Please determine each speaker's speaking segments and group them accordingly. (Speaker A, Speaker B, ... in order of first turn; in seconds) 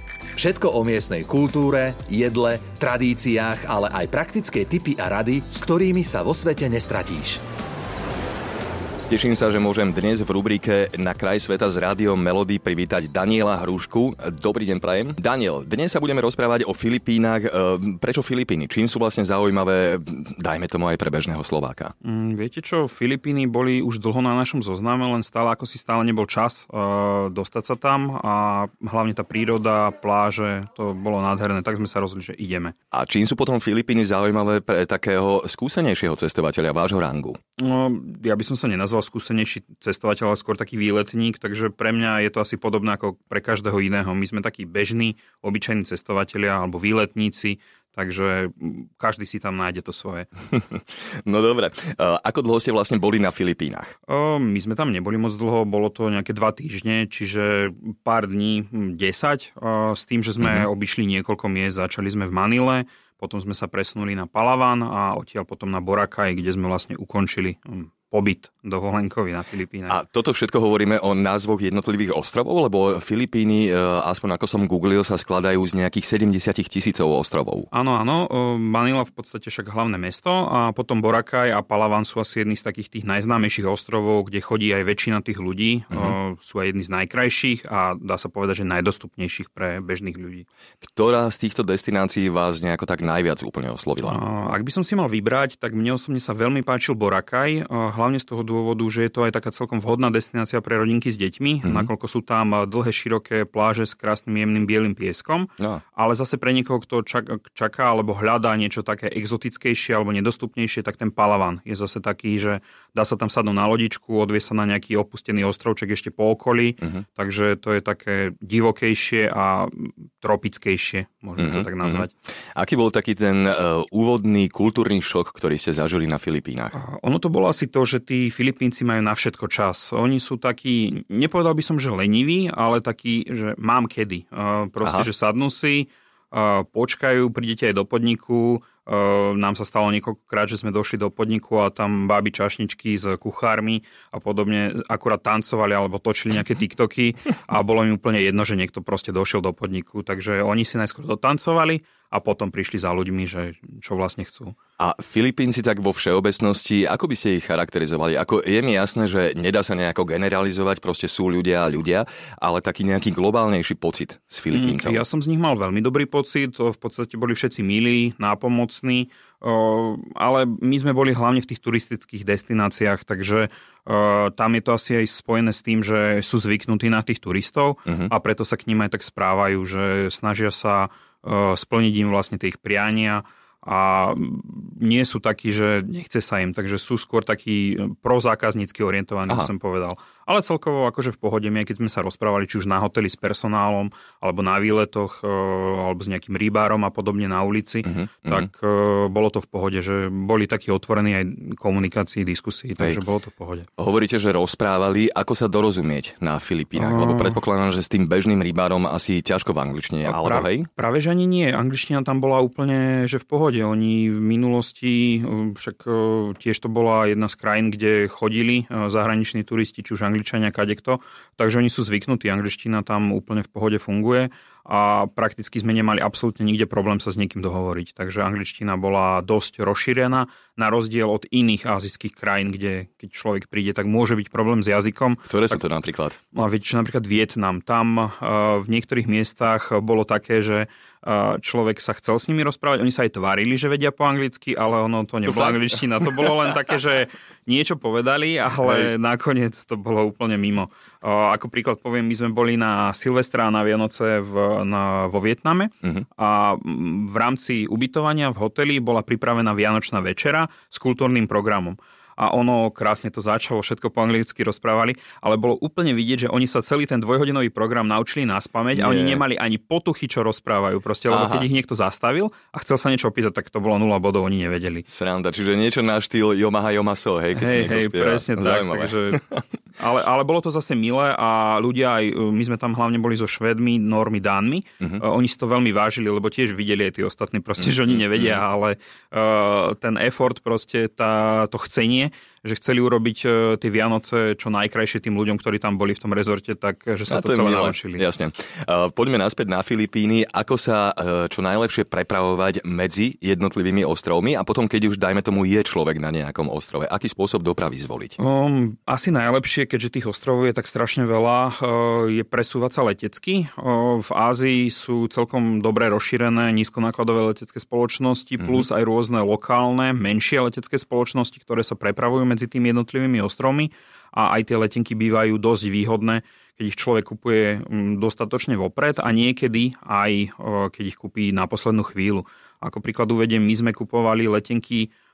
Speaker A: 0.4-7.4
Speaker B: 9.1-21.9, 32.9-37.4, 50.5-53.9, 60.4-60.7, 69.9-77.7, 90.8-94.2, 101.6-101.9, 105.6-105.8, 121.4-126.8, 154.8-165.0, 177.9-178.1, 197.8-198.5, 203.8-210.7, 235.3-236.2, 245.3-245.6, 268.8-269.2, 271.1-271.5, 274.9-279.4, 287.6-288.4, 297.1-308.2
Speaker C: 22.0-32.8, 37.6-50.3, 54.1-70.0, 77.7-90.5, 94.0-122.1, 126.7-154.6, 164.5-203.7, 206.8-207.4, 210.1-235.6, 236.3-274.9, 277.3-279.2, 279.8-298.1, 308.2-334.9